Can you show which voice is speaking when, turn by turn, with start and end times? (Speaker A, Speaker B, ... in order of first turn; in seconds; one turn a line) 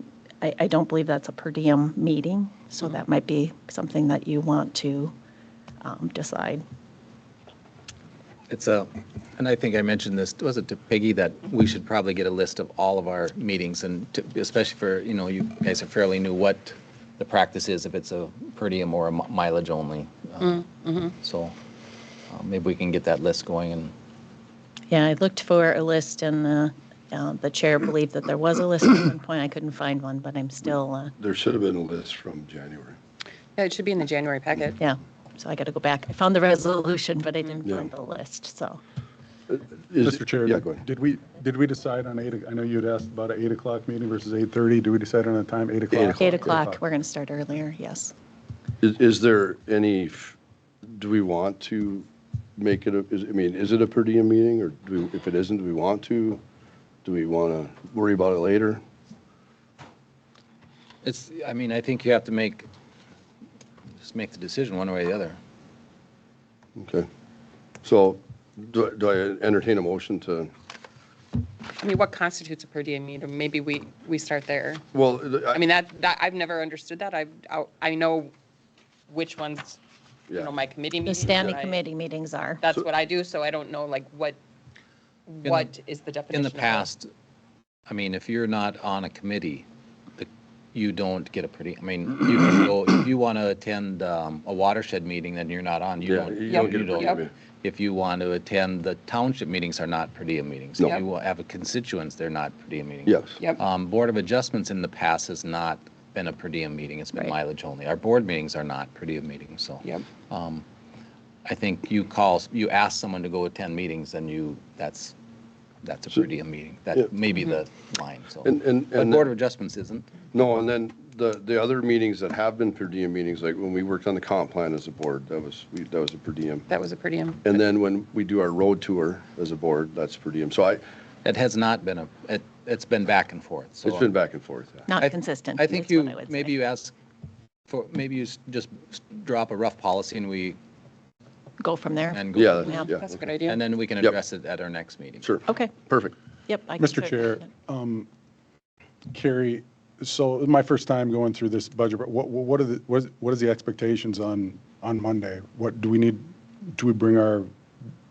Speaker A: 0.4-5.1
Speaker A: 5.8-6.6
Speaker B: 8.5-21.5
Speaker C: 20.4-21.1
Speaker B: 22.3-23.9
Speaker A: 24.9-31.1
Speaker D: 31.2-33.0
Speaker C: 33.5-34.8
Speaker A: 34.8-38.8
Speaker D: 39.9-40.8
Speaker E: 40.0-46.8
Speaker D: 45.9-46.4
Speaker A: 46.1-48.1
Speaker D: 48.8-56.4
Speaker D: 57.0-58.8
Speaker B: 61.0-62.7
Speaker B: 64.0-65.4
Speaker D: 66.8-67.1
Speaker D: 67.8-70.5
Speaker C: 71.7-74.8
Speaker D: 74.9-75.6
Speaker C: 75.5-78.3
Speaker C: 79.1-79.8
Speaker C: 80.3-81.8
Speaker A: 81.0-82.6
Speaker C: 82.6-84.4
Speaker C: 85.3-86.9
Speaker B: 85.4-85.7
Speaker B: 86.3-87.1
Speaker B: 87.9-89.7
Speaker B: 90.2-110.6
Speaker D: 96.0-97.3
Speaker C: 96.5-97.2
Speaker D: 103.0-103.4
Speaker B: 111.5-115.1
Speaker B: 115.8-120.1
Speaker D: 118.4-119.3
Speaker D: 120.3-126.7
Speaker C: 126.7-127.5
Speaker D: 127.4-130.8
Speaker B: 131.2-134.1
Speaker D: 133.8-134.8
Speaker A: 134.9-136.5
Speaker B: 135.0-136.9
Speaker B: 137.7-140.6
Speaker A: 141.6-142.7
Speaker B: 142.1-142.9
Speaker D: 142.3-143.2
Speaker C: 142.8-143.6
Speaker B: 143.4-145.4
Speaker D: 145.2-146.1
Speaker A: 145.5-145.7
Speaker A: 146.5-147.5
Speaker E: 146.8-148.1
Speaker E: 149.1-157.5